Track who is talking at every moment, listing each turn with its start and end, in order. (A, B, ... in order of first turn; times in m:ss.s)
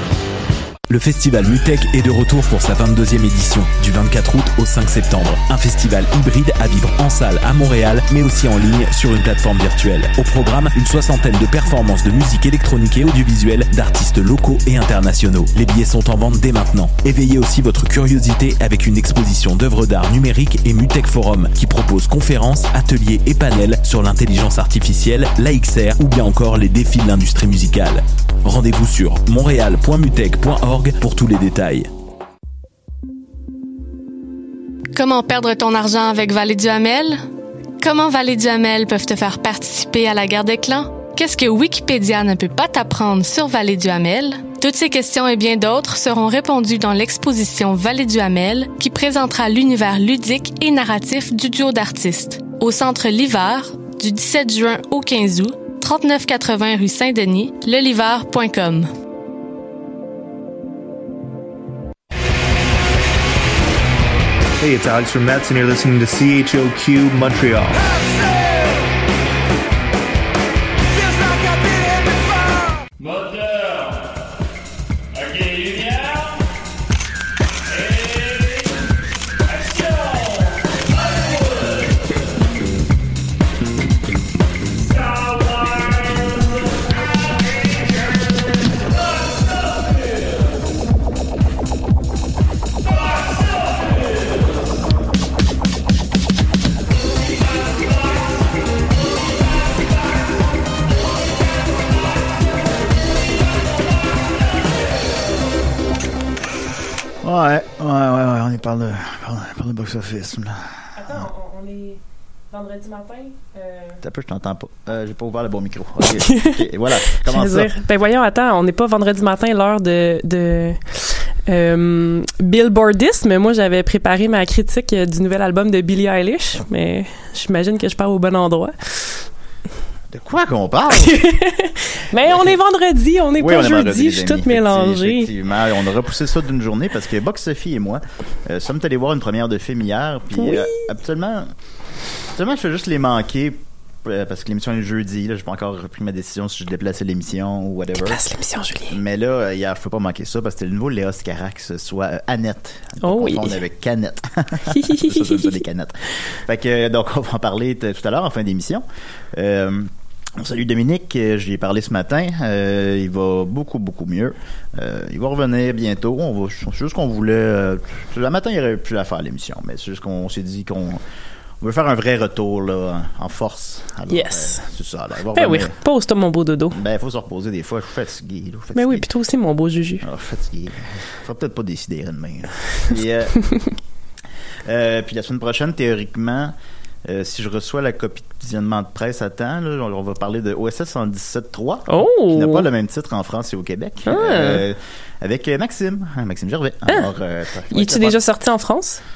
0:00.9-0:31.9 A
0:34.9-0:37.2 B
0:37.8-0:58.9 B
1:04.6-1:07.9 C
1:13.0-1:14.0 C
1:15.2-1:16.2 C
1:47.2-1:51.2 D
1:51.0-1:52.0 E
1:52.5-1:54.0 E
1:54.0-1:57.7 D
1:56.2-2:09.2 E
2:10.1-2:11.2 D
2:11.0-2:15.3 E
2:13.4-2:21.5 D
2:20.4-2:20.8 E
2:22.4-2:28.2 D
2:28.0-2:29.0 E
2:28.9-2:51.0 D
2:33.0-2:33.6 E
2:34.7-2:35.5 E
2:51.6-2:55.8 D
2:54.1-2:54.6 E
2:55.4-2:56.8 E
2:56.7-2:59.1 D
2:58.8-3:00.1 E
3:00.0-3:03.4 D
3:04.6-3:06.5 D
3:07.0-3:18.2 D
3:11.9-3:12.7 E
3:14.0-3:14.6 E
3:17.7-3:19.0 E